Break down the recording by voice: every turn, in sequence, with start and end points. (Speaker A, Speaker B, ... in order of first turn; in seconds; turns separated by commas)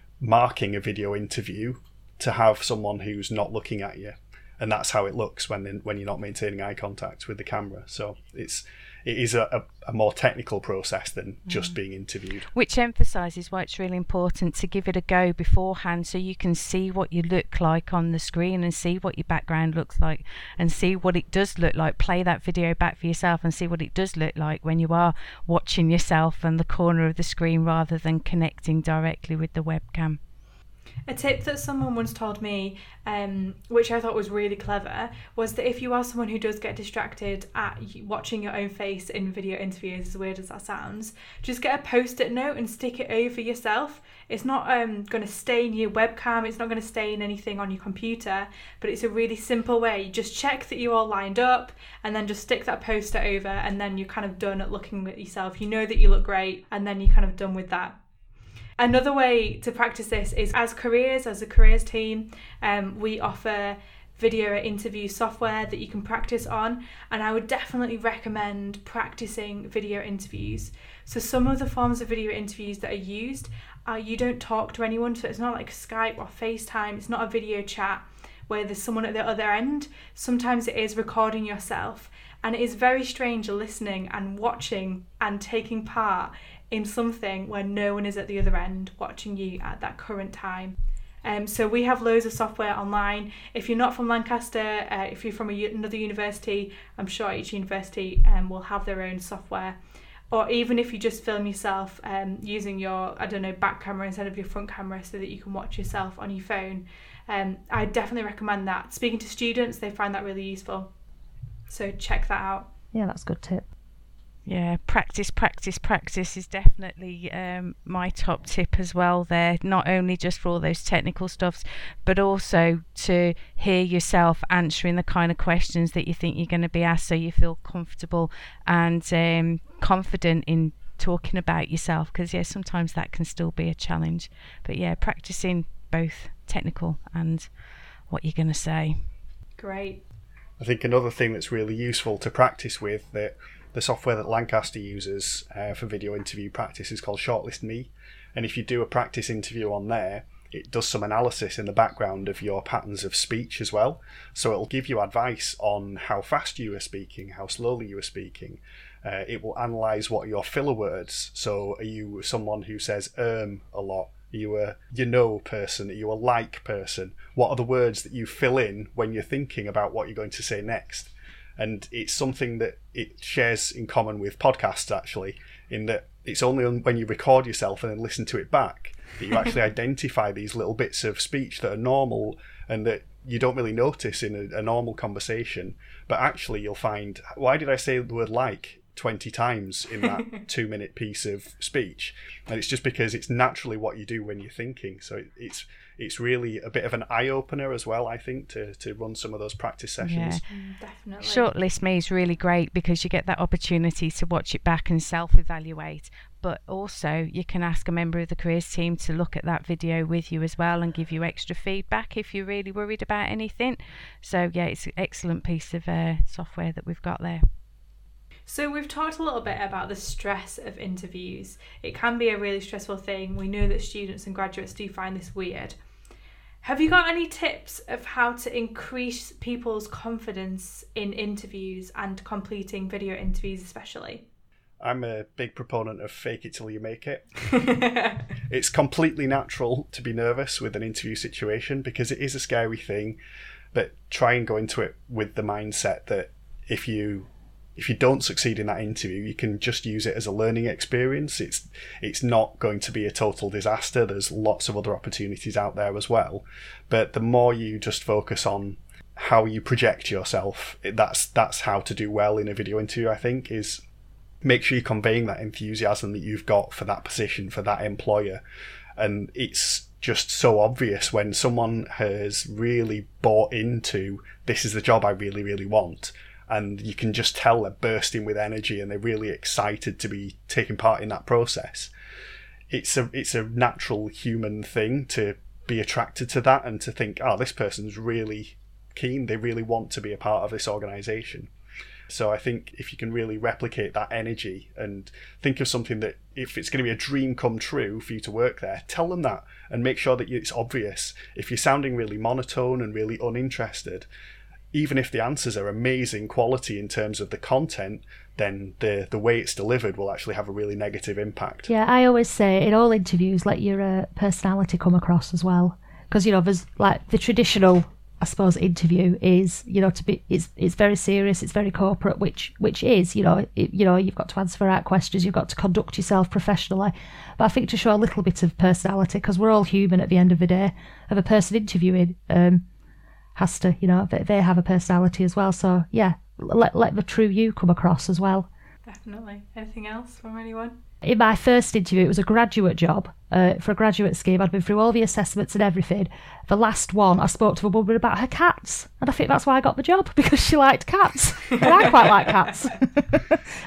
Speaker A: 0.2-12.5, Speaker B: 11.5-11.8, Speaker B: 12.5-30.2, Speaker C: 31.1-58.0, Speaker C: 58.8-99.8, Speaker C: 100.3-110.9, Speaker C: 111.7-112.7, Speaker D: 112.9-113.7, Speaker B: 114.5-137.5, Speaker B: 138.1-139.1, Speaker C: 139.6-140.0, Speaker A: 140.6-200.4, Speaker B: 200.0-200.4, Speaker C: 200.5-201.5, Speaker B: 201.2-217.4, Speaker C: 218.5-225.8, Speaker C: 226.6-234.3, Speaker A: 234.8-237.5, Speaker C: 237.7-238.2, Speaker A: 238.5-243.2, Speaker A: 243.7-263.8, Speaker A: 264.4-268.4, Speaker A: 269.0-281.9, Speaker A: 282.7-291.5, Speaker A: 292.1-304.1, Speaker A: 304.7-311.7, Speaker D: 311.7-332.6, Speaker D: 333.4-338.5, Speaker C: 338.9-340.8, Speaker D: 341.0-353.4